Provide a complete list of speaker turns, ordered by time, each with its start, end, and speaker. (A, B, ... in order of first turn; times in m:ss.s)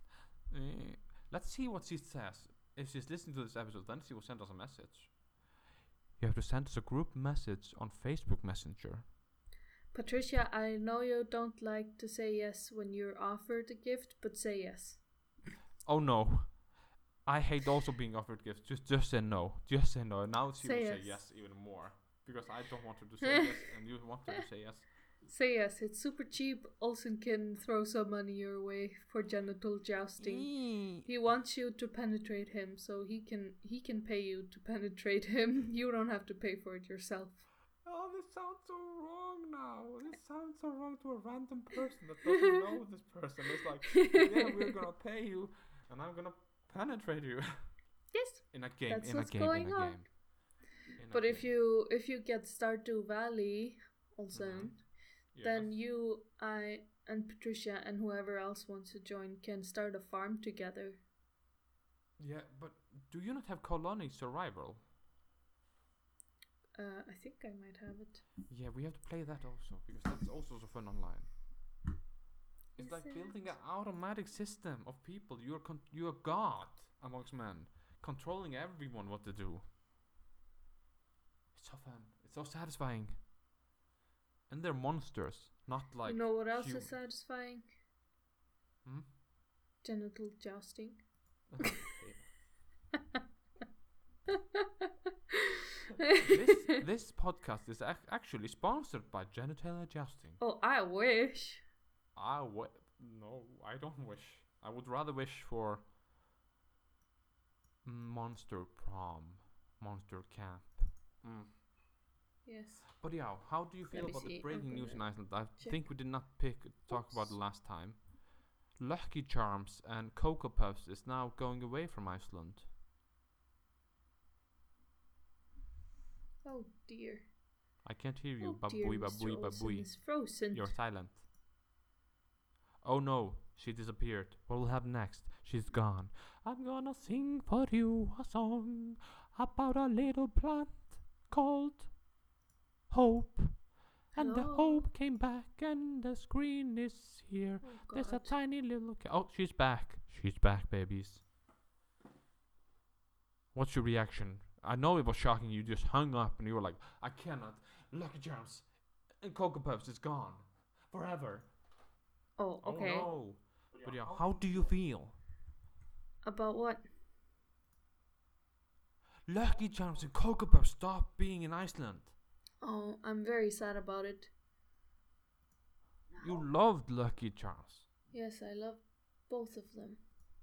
0:00.5-0:05.2 A
0:06.2-0:09.1 A
0:09.9-0:15.1 B
0:15.8-0:24.9 A
0:20.6-0:21.2 B
0:23.2-0:23.5 B
0:25.2-0:37.5 B
0:30.2-0:31.1 A
0:37.8-0:47.9 A
0:44.0-0:44.5 B
0:48.1-0:50.1 B
0:48.5-0:50.2 A
0:50.9-0:51.5 A
0:51.1-1:01.0 B
0:54.3-0:55.8 A
1:02.2-1:04.8 A
1:06.8-1:08.3 B
1:08.5-1:11.4 A
1:12.8-1:13.5 B
1:12.8-1:19.6 A
1:21.5-1:23.2 A
1:24.5-1:27.0 A
1:26.1-1:27.7 B
1:28.8-1:29.1 A
1:29.8-1:31.0 B
1:31.5-1:32.4 A
1:36.2-1:40.4 A
1:40.4-1:41.6 B
1:42.2-1:45.9 A
1:47.8-1:51.6 A
1:52.4-1:57.4 B
1:53.0-1:58.2 A
1:58.7-2:02.7 A
2:06.4-2:07.3 B
2:07.8-2:11.2 A
2:08.4-2:10.8 B
2:12.8-2:22.0 A
2:22.9-2:31.3 A
2:24.1-2:24.9 B
2:27.6-2:28.4 B
2:33.5-2:41.6 A
2:42.4-2:43.1 B
2:42.6-2:45.2 A
2:46.2-2:46.9 B
2:49.3-2:52.1 A
2:52.6-2:54.3 B
2:56.2-2:57.9 A
2:58.1-3:00.0 B